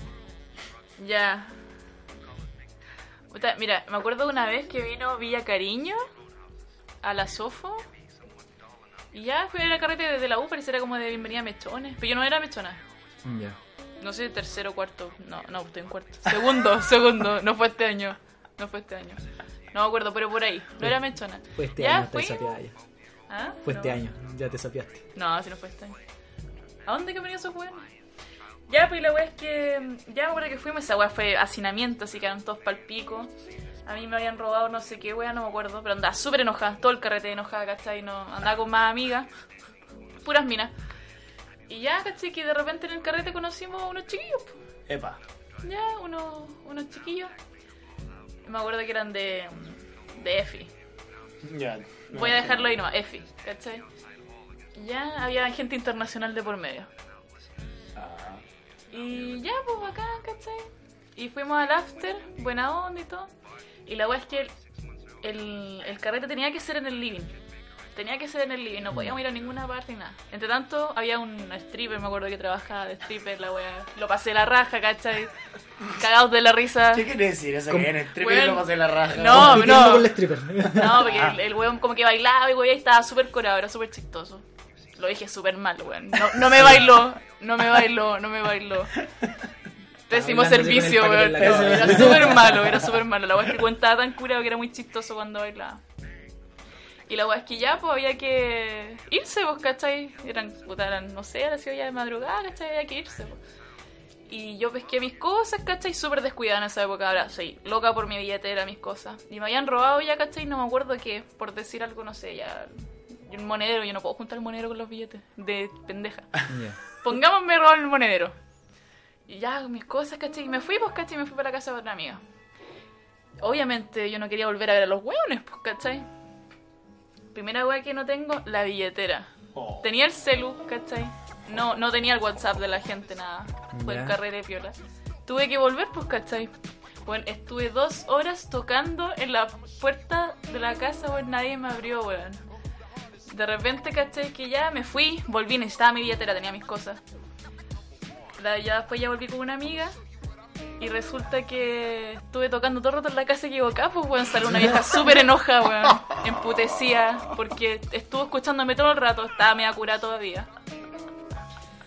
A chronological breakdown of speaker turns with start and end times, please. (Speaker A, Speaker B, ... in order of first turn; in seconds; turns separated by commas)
Speaker A: 1.0-1.6, Speaker A: 3.3-6.0, Speaker A: 7.0-7.8, Speaker A: 9.1-12.8, Speaker B: 13.2-13.6, Speaker A: 14.0-22.6, Speaker B: 21.5-22.8, Speaker A: 23.3-24.0, Speaker B: 23.6-25.1, Speaker A: 25.1-26.0, Speaker A: 26.9-27.9, Speaker A: 28.7-33.3, Speaker A: 33.9-39.3, Speaker A: 40.2-40.7, Speaker A: 41.7-44.6, Speaker C: 44.9-45.2, Speaker A: 45.6-47.3, Speaker A: 48.5-50.7, Speaker C: 51.4-52.9, Speaker A: 52.1-53.9, Speaker A: 54.8-56.9, Speaker C: 58.0-58.4, Speaker A: 58.9-63.3, Speaker A: 63.9-64.5, Speaker A: 65.2-67.3, Speaker A: 68.0-75.3, Speaker B: 68.9-69.2, Speaker A: 75.8-77.1, Speaker C: 76.9-80.0, Speaker A: 78.1-84.4, Speaker B: 79.2-81.0, Speaker C: 80.7-81.4, Speaker A: 85.0-89.0, Speaker C: 89.0-89.3, Speaker A: 90.1-95.8, Speaker B: 90.1-92.7, Speaker C: 91.3-93.0, Speaker A: 97.1-103.4, Speaker A: 104.3-118.3, Speaker B: 116.5-116.8, Speaker A: 119.3-122.2, Speaker A: 123.4-126.1, Speaker A: 127.3-129.3, Speaker C: 129.5-129.9, Speaker A: 129.8-136.5, Speaker B: 133.7-134.2, Speaker A: 137.1-142.4, Speaker A: 143.3-147.0, Speaker A: 148.4-150.0, Speaker A: 150.8-160.5